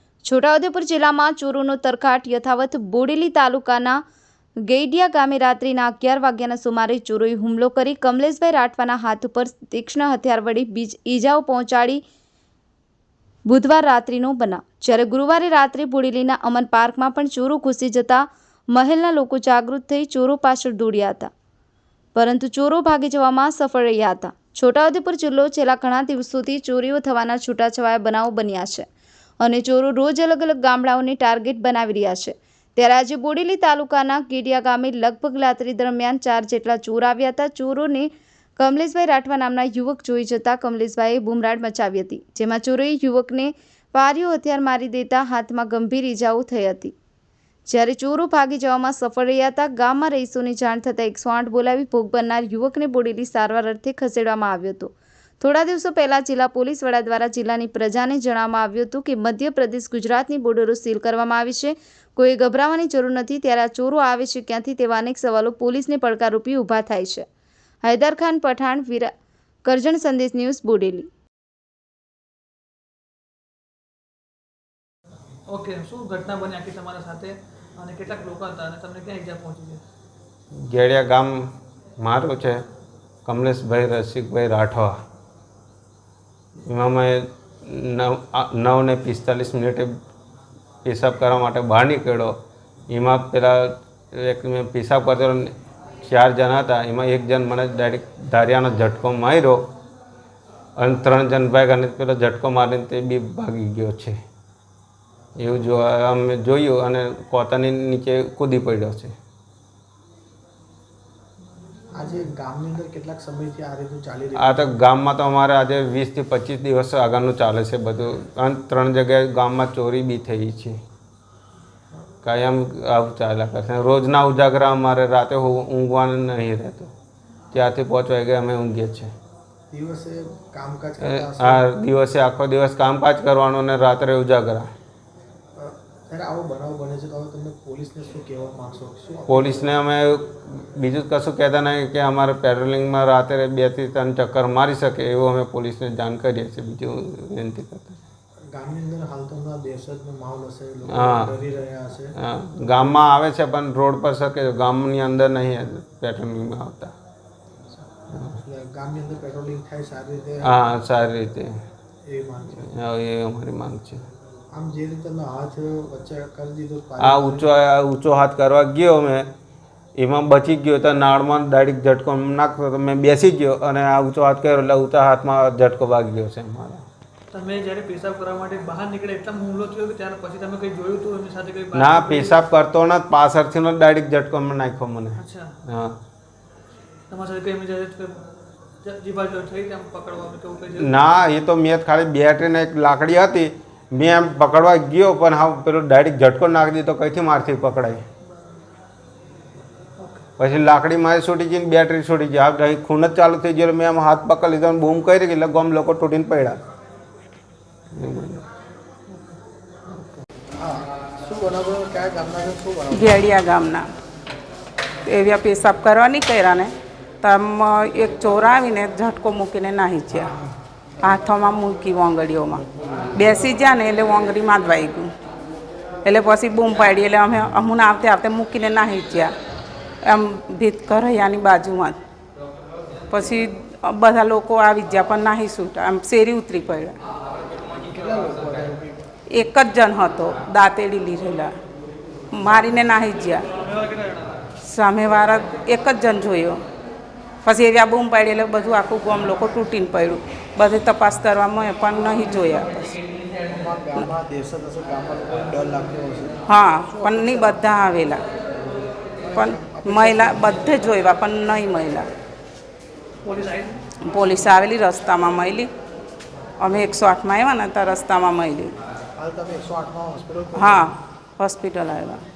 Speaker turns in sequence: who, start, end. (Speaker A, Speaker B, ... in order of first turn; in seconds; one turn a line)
Speaker A: 0.2-4.0
Speaker A: 4.7-12.0
Speaker A: 13.5-21.3
Speaker A: 22.1-28.9
Speaker A: 29.4-46.9
Speaker A: 47.7-67.2
Speaker A: 67.8-69.1
Speaker A: 69.6-71.1
Speaker B: 75.5-79.8
Speaker C: 80.5-81.3
Speaker C: 82.0-82.6
Speaker C: 83.3-85.0
Speaker C: 86.7-89.9
Speaker C: 90.8-92.4
Speaker C: 92.9-95.5
Speaker C: 96.0-99.7
Speaker C: 100.8-104.2
Speaker C: 105.4-109.1
Speaker D: 111.9-114.7
Speaker C: 114.4-120.8
Speaker C: 122.2-126.9
Speaker C: 127.5-129.1
Speaker D: 129.7-131.7
Speaker C: 131.1-134.7
Speaker D: 135.6-139.7
Speaker C: 139.3-148.0
Speaker D: 148.5-152.2
Speaker C: 150.9-151.3
Speaker C: 152.2-156.9
Speaker C: 158.1-158.4
Speaker D: 158.4-160.6
Speaker C: 160.4-161.6
Speaker D: 162.1-162.7
Speaker C: 162.6-164.0
Speaker D: 164.5-167.5
Speaker C: 167.0-169.3
Speaker C: 170.0-176.8
Speaker B: 177.3-182.4
Speaker C: 181.8-186.0
Speaker B: 185.2-185.6
Speaker B: 187.1-188.2
Speaker B: 188.8-191.0
Speaker C: 190.8-198.0
Speaker B: 200.0-200.3
Speaker C: 200.4-206.6
Speaker C: 207.9-208.4
Speaker D: 210.6-213.2
Speaker E: 212.9-213.9
Speaker E: 215.1-220.3
Speaker D: 220.1-220.5
Speaker E: 221.0-225.1
Speaker E: 226.0-229.3
Speaker E: 230.0-232.0
Speaker E: 233.1-237.0
Speaker D: 237.7-239.0
Speaker E: 239.3-241.5
Speaker E: 242.3-243.5
Speaker B: 243.6-244.4
Speaker E: 244.7-246.6
Speaker E: 247.4-253.0
Speaker D: 253.5-257.6
Speaker E: 256.5-258.2
Speaker D: 259.2-260.7
Speaker E: 259.4-262.1
Speaker B: 263.2-263.8
Speaker E: 264.0-265.7
Speaker E: 266.6-268.8
Speaker D: 269.2-270.9
Speaker E: 270.6-272.2